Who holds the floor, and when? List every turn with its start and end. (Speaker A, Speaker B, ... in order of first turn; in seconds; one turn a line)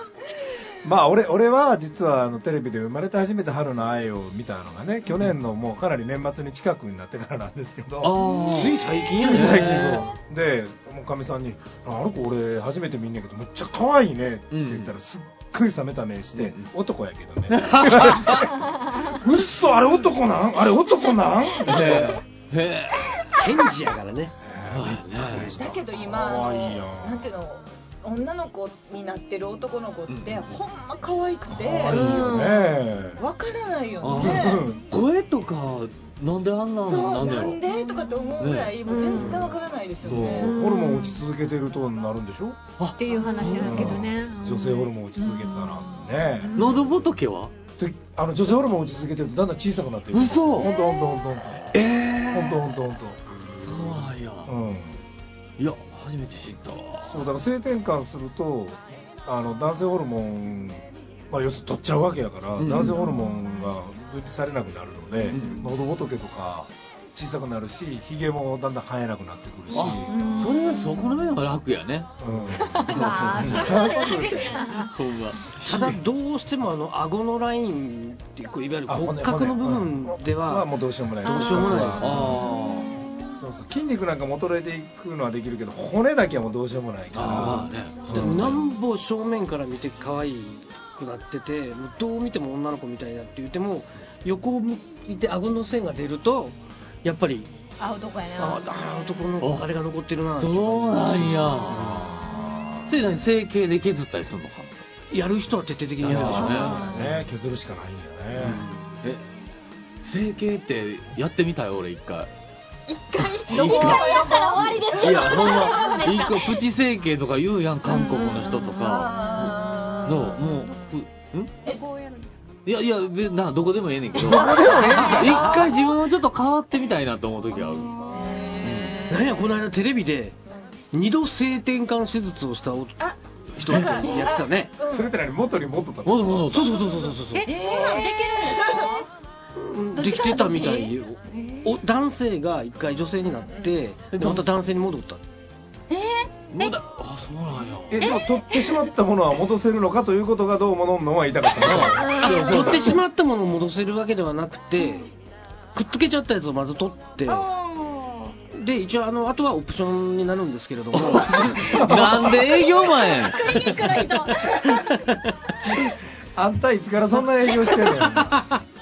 Speaker A: 0.8-8.2
Speaker B: 8.0-10.0
Speaker C: 8.4-10.1
Speaker A: 9.2-22.2
Speaker B: 14.5-14.9
Speaker B: 16.4-16.6
Speaker B: 17.5-18.5
Speaker B: 21.6-23.5
Speaker C: 23.3-24.3
Speaker A: 24.4-27.3
Speaker B: 24.7-25.5
Speaker D: 25.5-32.0
Speaker B: 30.1-30.5
Speaker A: 31.5-33.2
Speaker E: 31.9-32.8
Speaker D: 33.2-34.7
Speaker B: 34.0-37.6
Speaker A: 34.1-34.9
Speaker D: 36.8-40.5
Speaker B: 38.4-38.8
Speaker E: 38.9-39.4
Speaker A: 39.1-42.7
Speaker E: 40.3-41.2
Speaker B: 42.8-44.0
Speaker E: 43.0-46.9
Speaker A: 43.5-46.9
Speaker B: 46.5-47.5
Speaker A: 47.8-51.8
Speaker B: 50.1-50.7
Speaker E: 50.8-51.1
Speaker B: 51.7-52.6
Speaker A: 52.3-53.2
Speaker C: 53.3-54.1
Speaker B: 53.6-54.5
Speaker A: 54.5-55.0
Speaker B: 55.6-57.2
Speaker A: 57.0-70.2
Speaker B: 62.6-63.0
Speaker E: 62.7-63.7
Speaker E: 65.2-65.6
Speaker B: 65.3-65.7
Speaker B: 69.7-73.5
Speaker E: 69.8-71.3
Speaker A: 72.2-74.6
Speaker E: 72.7-74.9
Speaker F: 73.5-74.9
Speaker B: 74.9-75.4
Speaker A: 75.5-76.0
Speaker C: 75.6-82.3
Speaker A: 78.9-82.5
Speaker E: 81.3-81.8
Speaker B: 82.0-83.0
Speaker F: 82.5-83.3
Speaker A: 83.3-88.5
Speaker B: 87.1-88.6
Speaker C: 87.2-97.5
Speaker E: 97.8-98.6
Speaker C: 98.4-101.9
Speaker B: 99.4-99.7
Speaker B: 100.3-102.1
Speaker A: 101.7-103.0
Speaker B: 102.9-104.7
Speaker C: 105.1-106.9
Speaker B: 106.0-106.8
Speaker A: 106.0-108.6
Speaker E: 106.2-107.2
Speaker C: 108.4-108.9
Speaker B: 108.4-109.2
Speaker B: 110.0-112.3
Speaker F: 112.9-116.7
Speaker B: 113.2-121.5
Speaker E: 113.5-115.2
Speaker E: 117.9-118.7
Speaker D: 118.7-120.5
Speaker E: 119.5-120.9
Speaker F: 121.7-122.4
Speaker B: 122.7-128.0
Speaker A: 124.1-125.6
Speaker F: 127.6-128.5
Speaker D: 128.1-129.2
Speaker B: 128.6-129.0
Speaker C: 129.1-130.3
Speaker C: 130.9-133.0
Speaker D: 133.0-135.2
Speaker C: 133.5-134.7
Speaker B: 133.7-134.0
Speaker A: 134.8-136.6
Speaker B: 136.0-136.8
Speaker C: 136.5-137.5
Speaker D: 136.7-139.0
Speaker F: 137.3-139.1
Speaker C: 139.5-145.2
Speaker E: 139.9-141.7
Speaker D: 143.4-143.8
Speaker B: 144.1-144.4
Speaker F: 145.9-146.8
Speaker B: 146.5-148.2
Speaker A: 147.9-152.3
Speaker F: 148.0-148.9
Speaker B: 151.6-153.0
Speaker C: 151.7-155.1
Speaker E: 152.0-152.8
Speaker C: 155.7-157.4
Speaker F: 157.2-158.4
Speaker C: 158.5-162.6
Speaker B: 160.9-163.6
Speaker F: 162.4-165.2
Speaker C: 163.4-165.8
Speaker A: 166.3-168.6